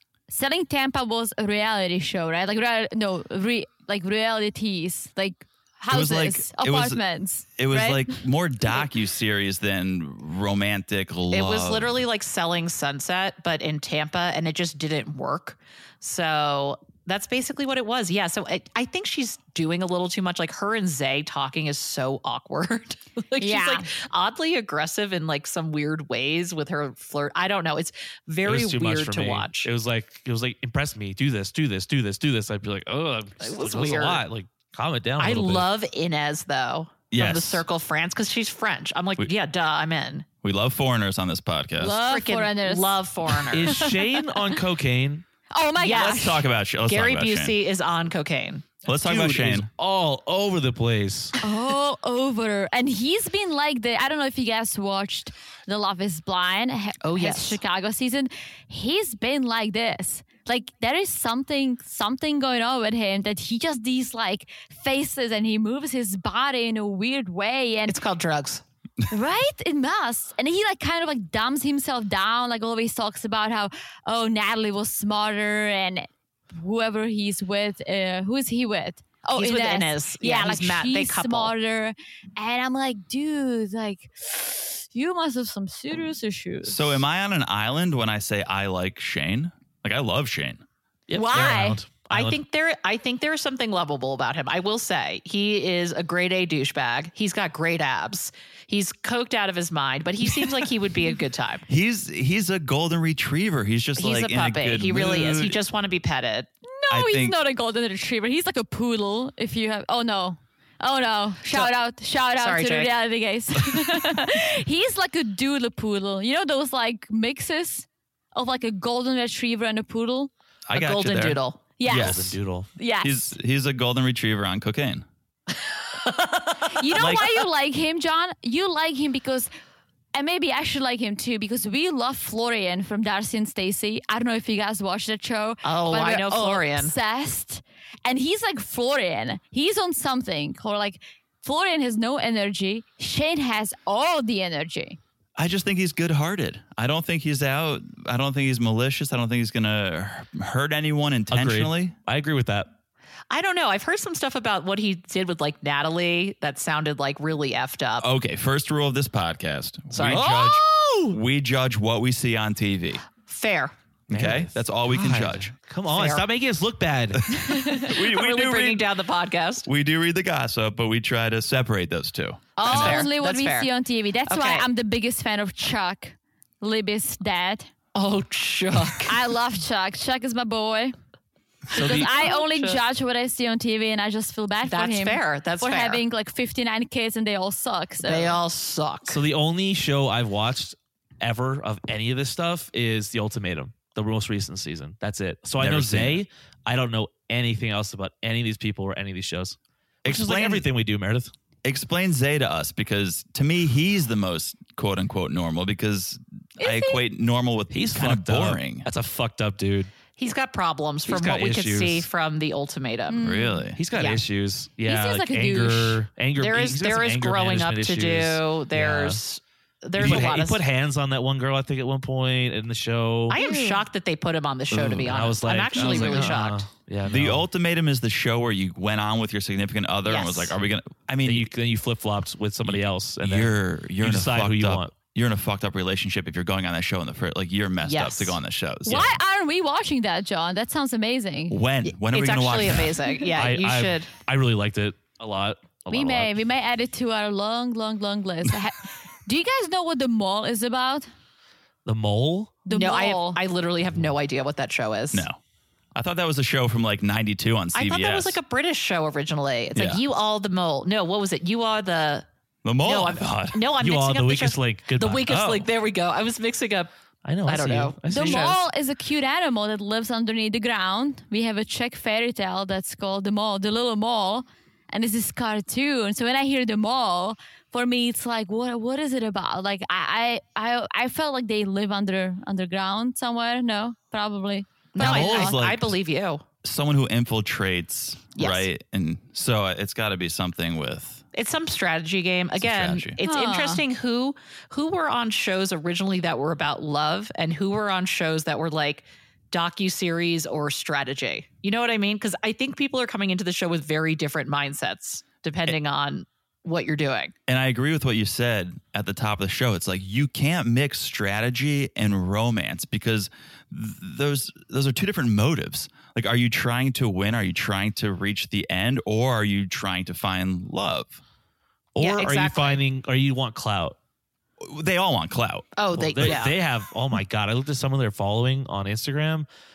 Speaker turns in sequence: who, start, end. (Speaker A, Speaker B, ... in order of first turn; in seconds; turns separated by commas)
Speaker A: 0.3-8.2, Speaker B: 5.9-7.0, Speaker B: 7.6-12.0, Speaker C: 11.3-29.7, Speaker A: 23.4-23.9, Speaker D: 28.4-35.7, Speaker C: 33.4-34.2, Speaker C: 35.2-40.3, Speaker B: 37.1-37.6, Speaker B: 40.4-42.0, Speaker A: 41.8-44.6, Speaker C: 42.0-43.9, Speaker D: 43.5-45.2, Speaker A: 45.5-46.4, Speaker C: 45.8-46.3, Speaker B: 45.9-47.6, Speaker C: 46.9-48.7, Speaker B: 48.9-49.7, Speaker D: 49.0-51.4, Speaker A: 51.4-68.0, Speaker C: 57.0-57.6, Speaker C: 67.9-68.6, Speaker A: 69.1-87.0, Speaker C: 79.3-81.5, Speaker B: 86.6-90.6, Speaker D: 91.1-92.4, Speaker A: 91.1-91.8, Speaker C: 92.1-101.6, Speaker B: 101.7-105.6, Speaker C: 104.0-106.5, Speaker A: 106.7-120.3, Speaker B: 106.9-107.4, Speaker C: 111.5-111.7, Speaker C: 112.4-112.9, Speaker B: 120.7-122.4, Speaker C: 120.7-121.6, Speaker A: 121.8-123.3, Speaker D: 121.9-122.7, Speaker B: 123.0-125.0, Speaker C: 126.0-127.0, Speaker A: 126.7-129.5, Speaker A: 130.1-145.0, Speaker C: 135.6-136.9, Speaker B: 145.4-151.9, Speaker D: 151.3-152.7, Speaker C: 153.3-158.1, Speaker B: 158.0-163.0, Speaker C: 159.9-160.3, Speaker D: 160.0-161.2, Speaker C: 163.2-163.7, Speaker B: 164.1-165.5, Speaker D: 164.1-167.3, Speaker C: 165.9-166.3, Speaker B: 167.3-168.9, Speaker A: 167.5-167.9, Speaker C: 167.8-169.7, Speaker B: 169.7-173.1, Speaker C: 172.6-173.7, Speaker A: 172.6-177.7, Speaker C: 174.3-174.7, Speaker C: 177.9-179.2, Speaker A: 179.0-180.9, Speaker A: 181.7-188.4, Speaker D: 181.7-182.1, Speaker C: 182.0-182.8, Speaker C: 184.7-186.0, Speaker C: 188.0-189.2, Speaker D: 189.1-201.3, Speaker B: 195.6-196.2, Speaker B: 200.0-200.7, Speaker B: 201.6-208.9, Speaker A: 206.6-207.0, Speaker D: 207.7-209.9, Speaker C: 210.2-213.2, Speaker D: 211.1-212.1, Speaker A: 213.1-213.7, Speaker B: 213.2-213.8, Speaker D: 213.8-219.2, Speaker C: 213.9-214.2, Speaker A: 214.8-216.0, Speaker C: 216.4-220.6, Speaker D: 220.0-223.4, Speaker C: 223.3-226.7, Speaker A: 223.3-223.8, Speaker D: 224.7-227.5, Speaker B: 224.8-225.1, Speaker B: 225.8-226.2, Speaker B: 227.1-231.5, Speaker C: 230.1-230.5, Speaker D: 231.2-234.9, Speaker B: 232.7-239.2, Speaker C: 237.8-238.4, Speaker A: 238.8-241.6, Speaker B: 241.5-243.0, Speaker C: 241.8-244.1, Speaker D: 243.3-246.3, Speaker A: 245.9-251.1, Speaker D: 251.8-252.6, Speaker A: 252.7-253.4, Speaker C: 252.7-255.3, Speaker B: 255.1-255.4, Speaker B: 255.9-258.4, Speaker C: 257.7-262.3, Speaker B: 259.8-260.0, Speaker B: 262.6-263.6, Speaker C: 262.8-266.9, Speaker D: 263.8-265.4, Speaker B: 265.3-265.7, Speaker D: 267.2-268.6, Speaker C: 267.4-268.6, Speaker A: 268.1-285.6, Speaker C: 284.9-286.4, Speaker B: 285.0-286.0, Speaker B: 286.6-291.2, Speaker C: 288.4-288.7, Speaker C: 291.3-307.3, Speaker B: 292.6-293.2, Speaker A: 293.2-293.8, Speaker B: 307.5-321.2, Speaker D: 321.9-324.0, Speaker C: 322.0-322.8, Speaker B: 324.6-326.4, Speaker C: 325.8-326.6, Speaker D: 325.9-329.5